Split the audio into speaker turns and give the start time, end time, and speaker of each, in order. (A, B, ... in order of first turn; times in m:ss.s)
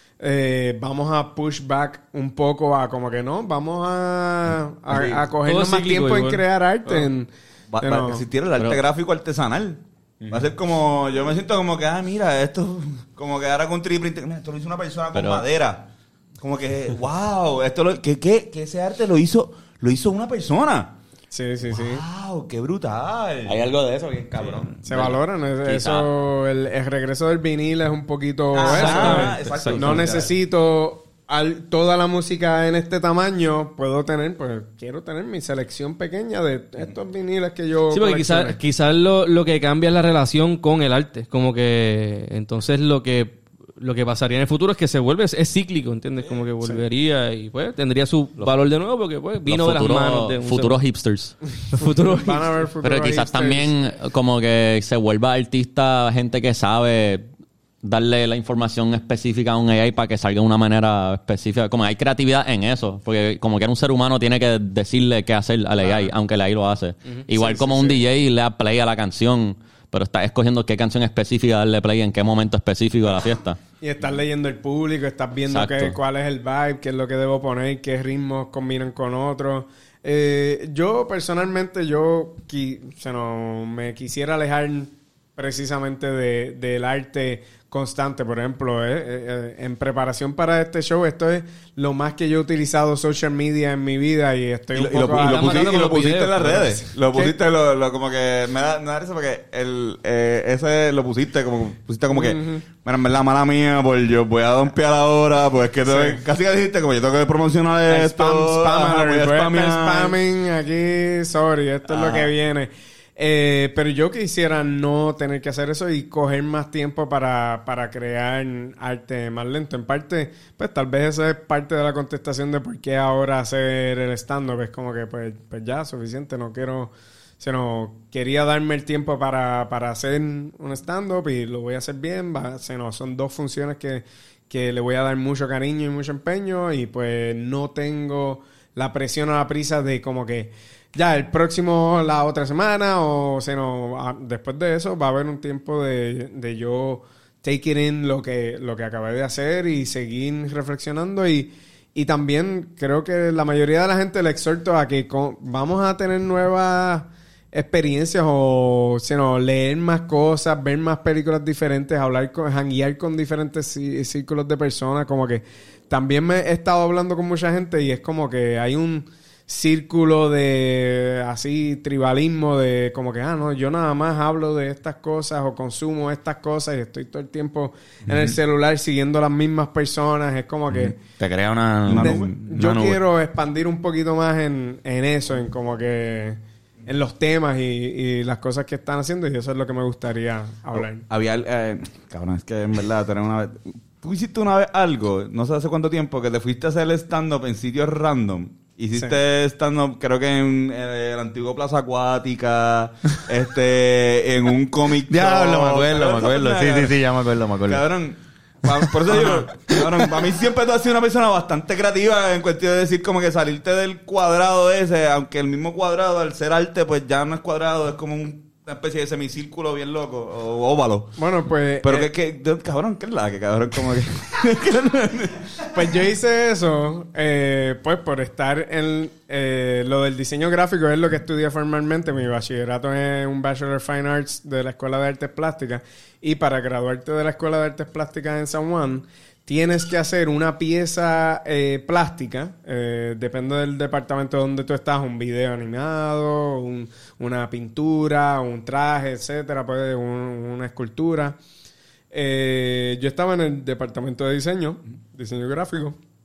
0:00.2-0:07.3 A
0:05.4-0:07.0 B
0:07.7-0:15.9 C
0:07.8-0:08.2 A
0:15.1-0:15.4 D
0:16.4-0:21.0 C
0:21.3-0:22.0 A
0:21.7-0:23.6 C
0:23.4-0:25.1 E
0:24.4-0:24.8 C
0:24.8-0:38.6 A
0:25.7-0:26.1 D
0:28.5-0:30.3 C
0:28.6-0:30.1 B
0:37.9-0:50.8 B
0:49.5-0:51.4 D
0:51.7-0:52.5 B
0:51.8-0:53.8 A
0:52.8-0:57.2 D
0:57.8-1:13.6 D
1:07.3-1:08.0 A
1:13.8-1:35.7 A
1:15.5-1:16.0 D
1:34.7-1:50.1 C
1:34.9-1:36.7 B
1:37.1-1:37.4 A
1:42.1-1:42.6 A
1:45.8-1:46.2 A
1:47.9-3:01.0 A
1:51.9-1:52.3 C
2:58.1-2:58.3 C
3:01.0-3:03.0 E
3:01.8-3:02.3 C
3:01.9-3:11.0 A
3:10.7-3:27.0 C
3:25.1-3:27.8 E
3:27.7-3:41.2 C
3:29.1-3:29.4 A
3:29.7-3:30.1 E
3:41.2-3:42.1 A
3:41.8-3:45.5 C
3:45.7-4:11.4 A
4:12.1-4:16.0 A